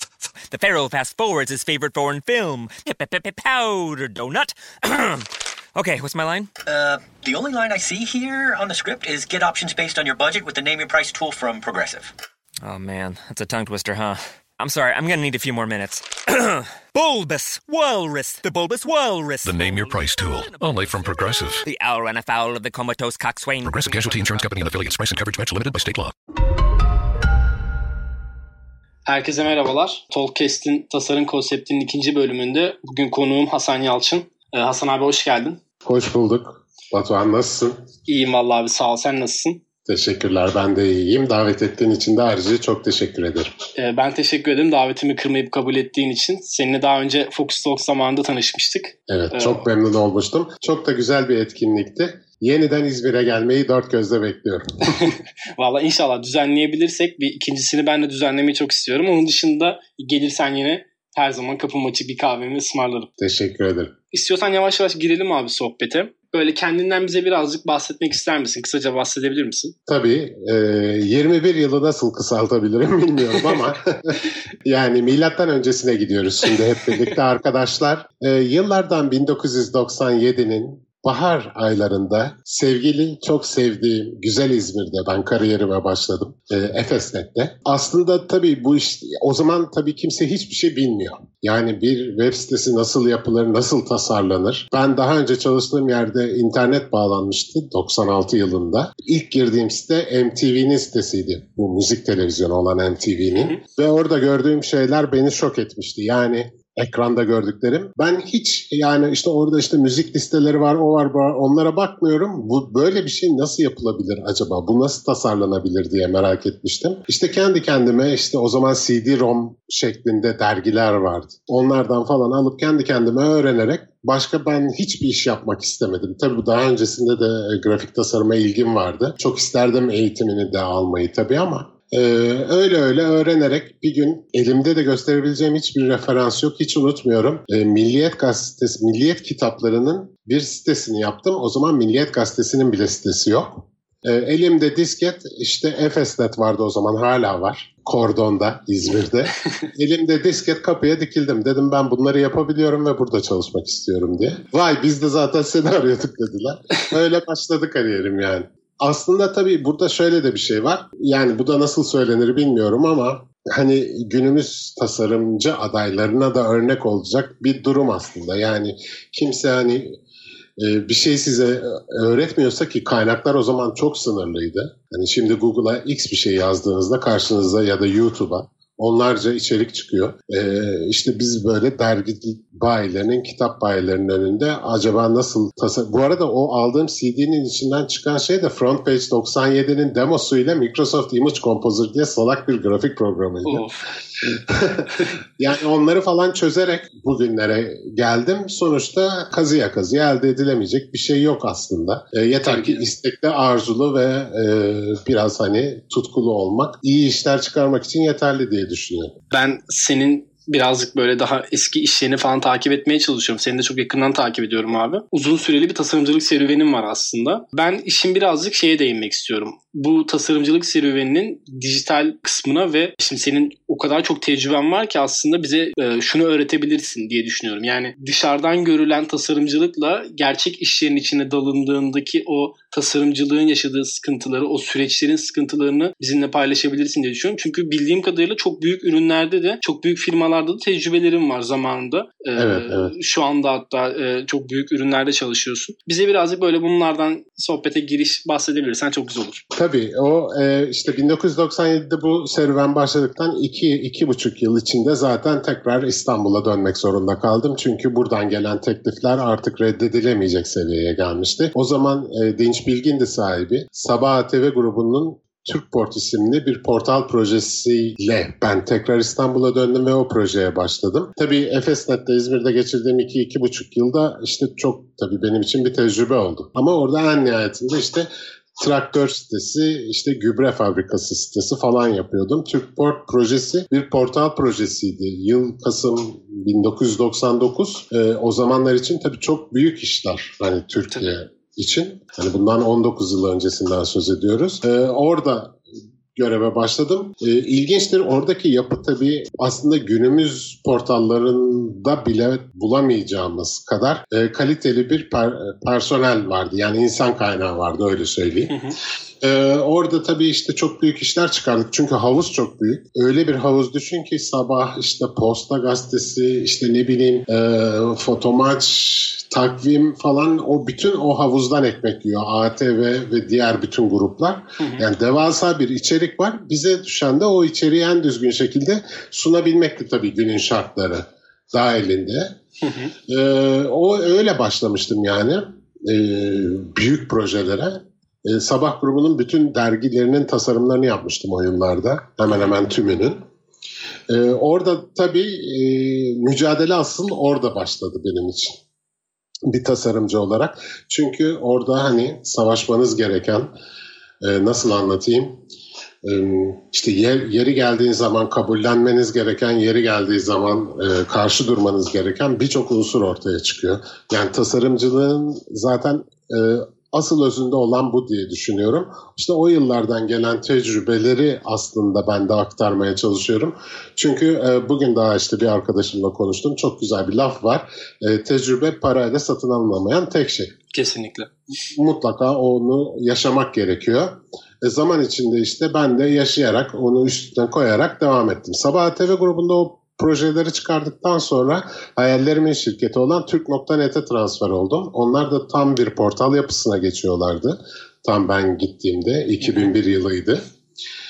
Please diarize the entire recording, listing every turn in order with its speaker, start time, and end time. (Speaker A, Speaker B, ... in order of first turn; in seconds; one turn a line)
Speaker A: 0.5-6.5
Speaker B: 6.7-12.1
Speaker A: 12.6-20.7
Speaker C: 19.4-21.6
Speaker A: 21.6-23.9
Speaker C: 23.6-26.1
Speaker D: 29.1-35.6
Speaker E: 35.8-37.8
Speaker D: 38.1-39.6
Speaker E: 39.9-43.6
Speaker D: 43.8-49.6
Speaker E: 49.1-55.1
Speaker D: 55.0-63.1
Speaker E: 63.2-63.9
Speaker D: 64.1-69.8
Speaker E: 69.9-169.9
Speaker D: 103.3-103.6
Speaker E: 170.6-193.7
Speaker D: 193.4-193.8
Speaker E: 194.2-209.2
Speaker D: 202.4-202.9
Speaker D: 209.3-249.4
Speaker E: 242.3-242.9
Speaker E: 249.5-295.6
Speaker E: 296.1-308.6
Speaker D: 308.5-308.8
Speaker E: 309.2-332.4
Speaker D: 324.6-324.8
Speaker D: 332.6-332.9
Speaker E: 333.1-343.2
Speaker E: 344.1-348.6
Speaker E: 349.4-353.5
Speaker E: 354.2-355.4
Speaker E: 356.0-380.5
Speaker D: 380.7-381.3
Speaker E: 381.7-400.4
Speaker D: 399.4-399.7